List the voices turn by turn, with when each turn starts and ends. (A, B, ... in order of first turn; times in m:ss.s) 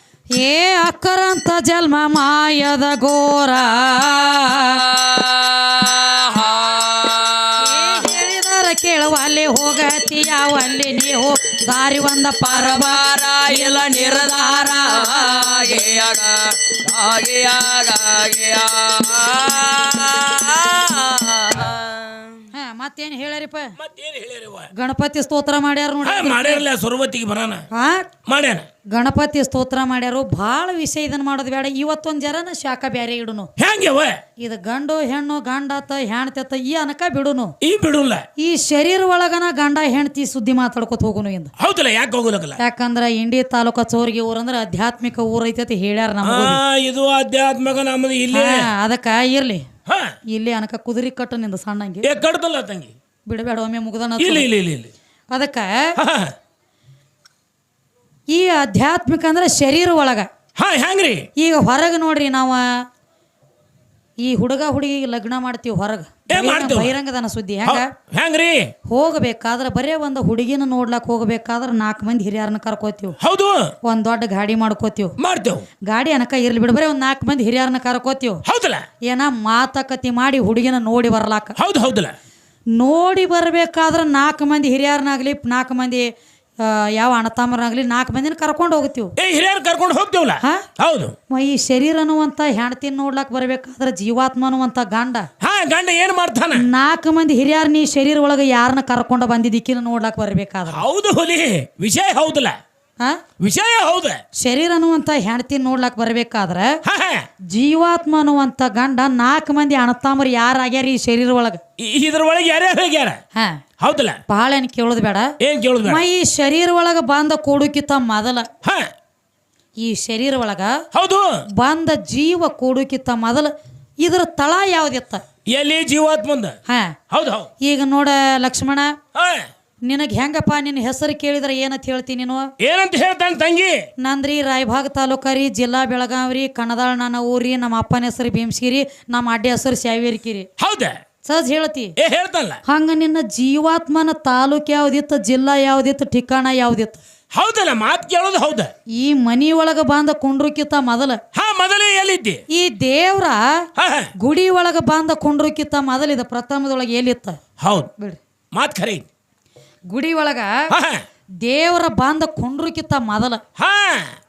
0:00.4-0:04.8 A
0:04.8-0:08.0 B
0:07.6-0:15.7 A
0:12.5-0:22.5 B
0:22.5-0:23.8 A
0:23.8-0:24.7 C
0:24.7-0:26.6 A
0:26.0-0:27.7 C
0:27.7-0:28.1 A
0:28.3-0:28.7 C
0:28.9-0:33.5 A
0:33.6-0:34.2 C
0:34.4-0:37.6 A
0:37.6-0:38.2 C
0:38.4-0:41.5 A
0:41.6-0:42.6 C
0:42.6-0:46.6 A
0:46.2-0:48.7 C
0:48.3-0:49.7 A
0:49.9-0:50.2 C
0:50.3-0:52.1 A
0:52.0-0:52.9 C
0:53.3-0:54.5 A
0:54.2-0:54.9 C
0:55.3-0:56.0 A
0:56.0-0:56.3 C
0:58.3-1:00.3 A
1:00.6-1:01.3 C
1:01.4-1:02.8 A
1:04.2-1:07.9 A
1:06.3-1:06.9 C
1:07.6-1:08.7 C
1:08.9-1:13.2 A
1:13.2-1:13.7 C
1:13.8-1:15.2 A
1:15.2-1:15.7 C
1:15.9-1:18.4 A
1:18.4-1:18.8 C
1:19.1-1:21.6 A
1:21.6-1:22.2 C
1:22.8-1:29.2 A
1:29.2-1:31.2 C
1:30.4-1:30.7 A
1:31.3-1:35.3 A
1:35.4-1:36.7 C
1:36.6-1:40.8 A
1:40.7-1:42.6 C
1:43.4-1:44.2 C
1:44.4-1:46.8 A
1:46.8-1:47.3 C
1:47.5-1:51.6 A
1:51.8-1:53.2 C
1:53.8-1:54.2 C
1:54.3-1:55.3 A
1:55.4-1:56.0 C
1:55.8-1:58.5 A
1:58.6-1:58.9 C
1:59.8-2:00.8 A
2:00.9-2:01.4 C
2:01.6-2:05.2 A
2:05.5-2:06.6 C
2:06.7-2:07.0 A
2:07.1-2:07.5 C
2:07.6-2:09.0 A
2:09.2-2:09.5 C
2:09.8-2:12.5 A
2:12.6-2:13.9 C
2:14.0-2:20.5 A
2:20.6-2:21.0 C
2:21.2-2:22.0 A
2:22.0-2:22.6 C
2:22.7-2:27.0 A
2:27.3-2:28.7 C
2:29.0-2:31.2 A
2:31.3-2:32.4 C
2:32.5-2:33.7 A
2:33.8-2:34.1 C
2:34.2-2:37.4 A
2:37.6-2:37.9 C
2:38.5-2:39.1 C
2:39.9-2:40.5 A
2:40.7-2:41.0 C
2:41.4-2:43.4 A
2:43.6-2:44.1 C